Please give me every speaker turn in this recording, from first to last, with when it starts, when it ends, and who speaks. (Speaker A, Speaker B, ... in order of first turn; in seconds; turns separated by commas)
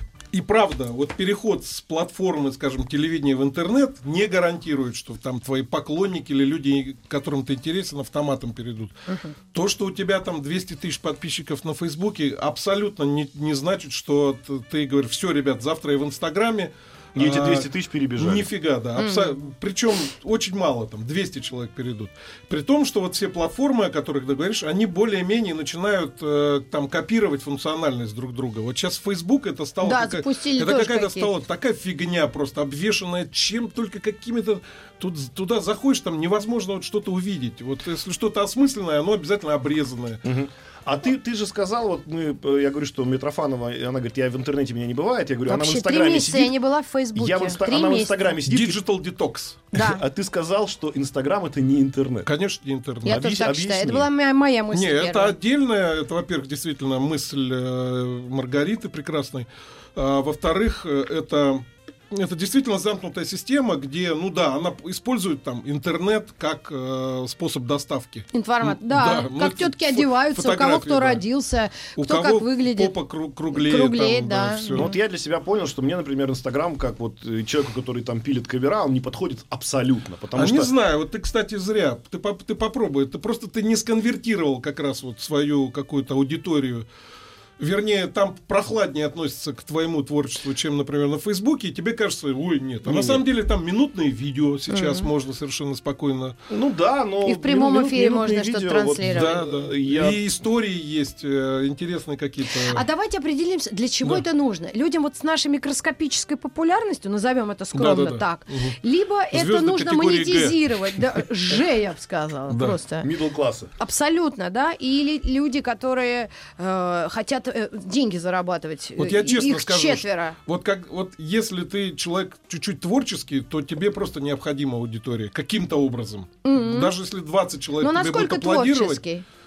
Speaker A: 0.3-8.9, Speaker B: 9.1-9.3, Speaker A: 9.5-40.2, Speaker C: 17.1-18.5, Speaker B: 19.0-19.4, Speaker B: 29.8-31.3, Speaker C: 40.2-46.6, Speaker B: 45.5-48.3, Speaker C: 47.1-48.8, Speaker A: 48.5-49.7, Speaker B: 49.7-50.0, Speaker C: 49.7-52.3, Speaker A: 52.2-53.3, Speaker B: 53.0-55.3, Speaker C: 53.0-54.1, Speaker A: 54.7-71.2, Speaker B: 68.3-72.9, Speaker A: 72.0-74.9, Speaker B: 73.5-74.9, Speaker C: 74.7-80.7, Speaker A: 80.3-86.8, Speaker A: 87.6-96.3, Speaker C: 92.8-93.2, Speaker B: 94.7-95.1, Speaker C: 96.5-100.2, Speaker B: 97.2-99.3, Speaker A: 99.0-102.8, Speaker B: 102.5-113.1, Speaker A: 107.7-108.8, Speaker A: 109.3-111.6, Speaker A: 112.5-112.8, Speaker C: 113.0-113.7, Speaker B: 113.8-120.4, Speaker A: 119.0-129.0, Speaker B: 126.4-126.9, Speaker B: 127.8-129.2